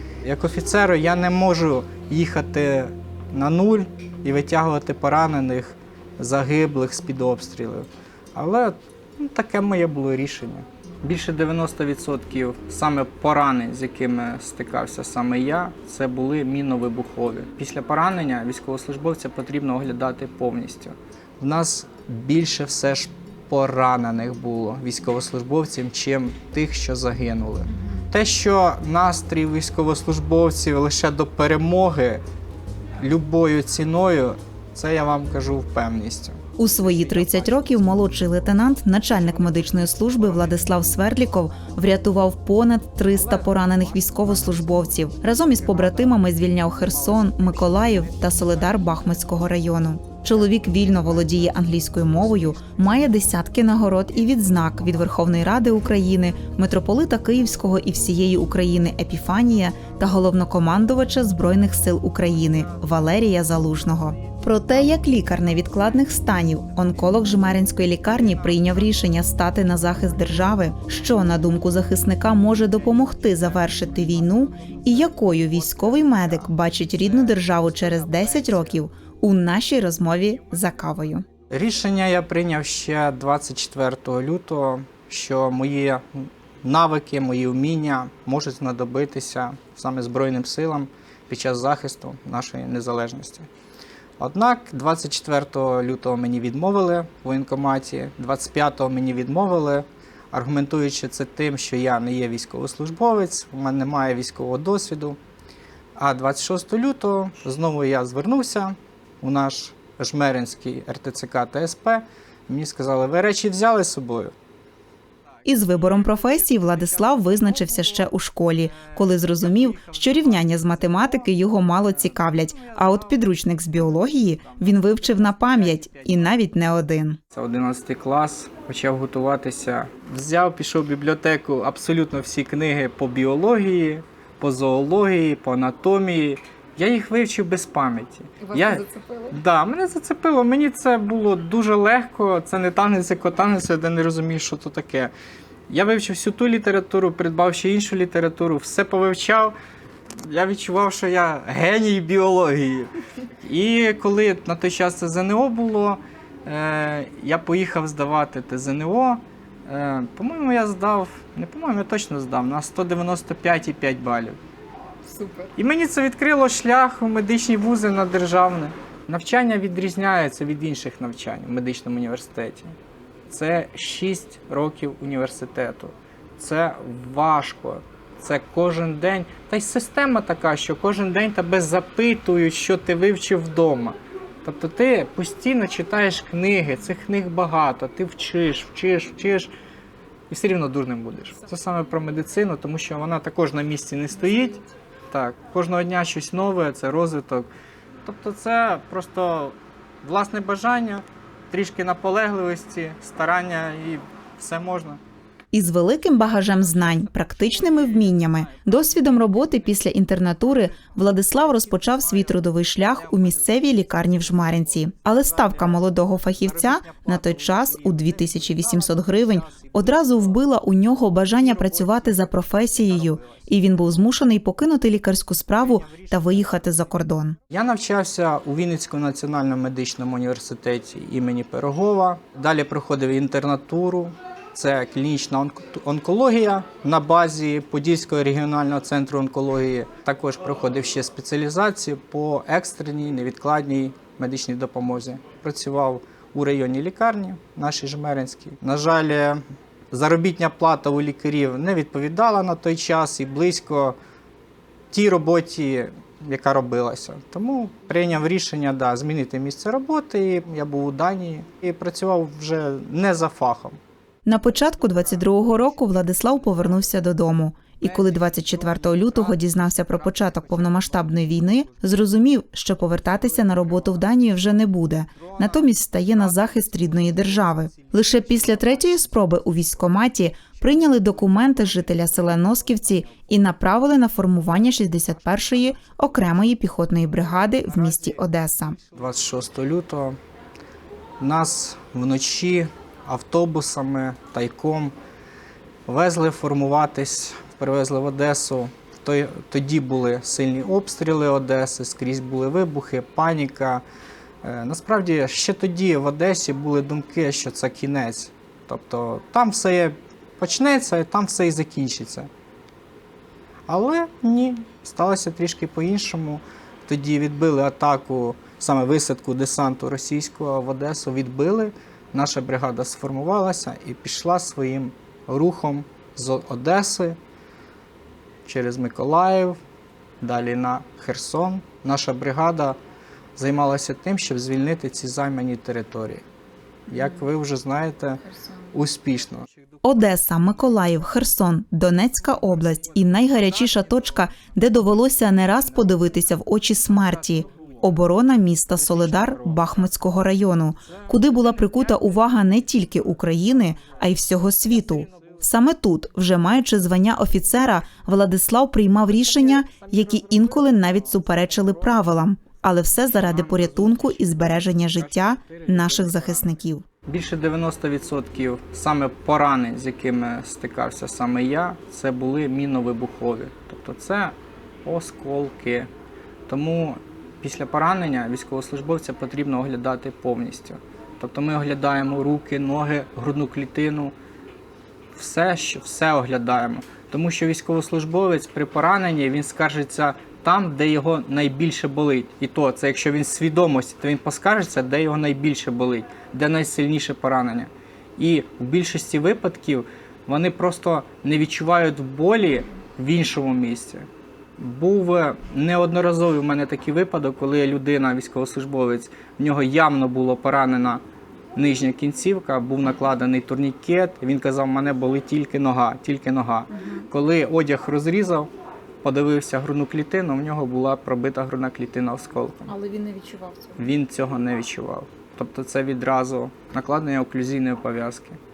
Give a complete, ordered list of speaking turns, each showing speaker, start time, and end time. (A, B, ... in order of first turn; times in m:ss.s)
0:00.2-0:32.2 A
0:33.0-0:41.0 A
0:36.6-1:21.2 B
0:43.1-0:49.3 A
0:50.4-0:52.8 A
1:02.6-1:02.9 A
1:04.3-1:04.7 A
1:06.7-1:07.1 A
1:08.0-1:10.4 A
1:12.2-1:18.9 A
1:21.5-1:33.5 A
1:34.2-1:45.2 A
1:46.0-1:54.3 A
1:55.4-2:07.2 B
1:58.8-2:06.2 A
2:07.3-2:25.1 A
2:18.4-2:19.4 C
2:25.7-2:29.6 A
2:30.2-2:44.4 A
2:45.1-2:45.5 C
2:45.6-2:52.7 A
2:53.3-3:09.5 A
3:10.3-3:17.5 A
3:18.0-3:25.0 A
3:25.5-3:47.4 B
3:27.9-3:29.6 A
3:31.3-3:40.4 A
3:41.3-3:44.1 A
3:45.6-3:46.5 A
3:47.5-4:14.0 A
4:14.9-4:23.8 A
4:24.3-4:48.8 B
4:24.7-4:27.1 A
4:27.8-4:32.2 A
4:32.9-4:34.6 A
4:35.1-4:39.8 A
4:40.6-4:43.4 A
4:44.2-4:46.0 A
4:47.3-4:48.2 A
4:48.9-4:50.2 A
4:51.2-4:55.0 A
4:55.9-5:03.8 A
5:04.4-5:12.3 A
5:13.7-5:27.2 A
5:28.4-5:29.6 A
5:30.2-5:32.8 A
5:33.4-5:36.2 A
5:36.9-5:39.5 A
5:38.3-5:38.7 C
5:39.8-6:06.8 B
5:42.8-5:44.6 A
5:45.3-5:46.2 A
5:46.8-5:48.1 A
5:48.8-5:50.0 A
5:50.9-5:55.5 A
5:59.1-6:02.1 A
6:03.1-6:15.9 A
6:16.5-6:24.2 A
6:25.2-6:51.0 A
6:51.6-6:58.5 A
6:59.0-7:02.8 A
7:02.7-7:03.8 C
7:03.8-7:08.4 A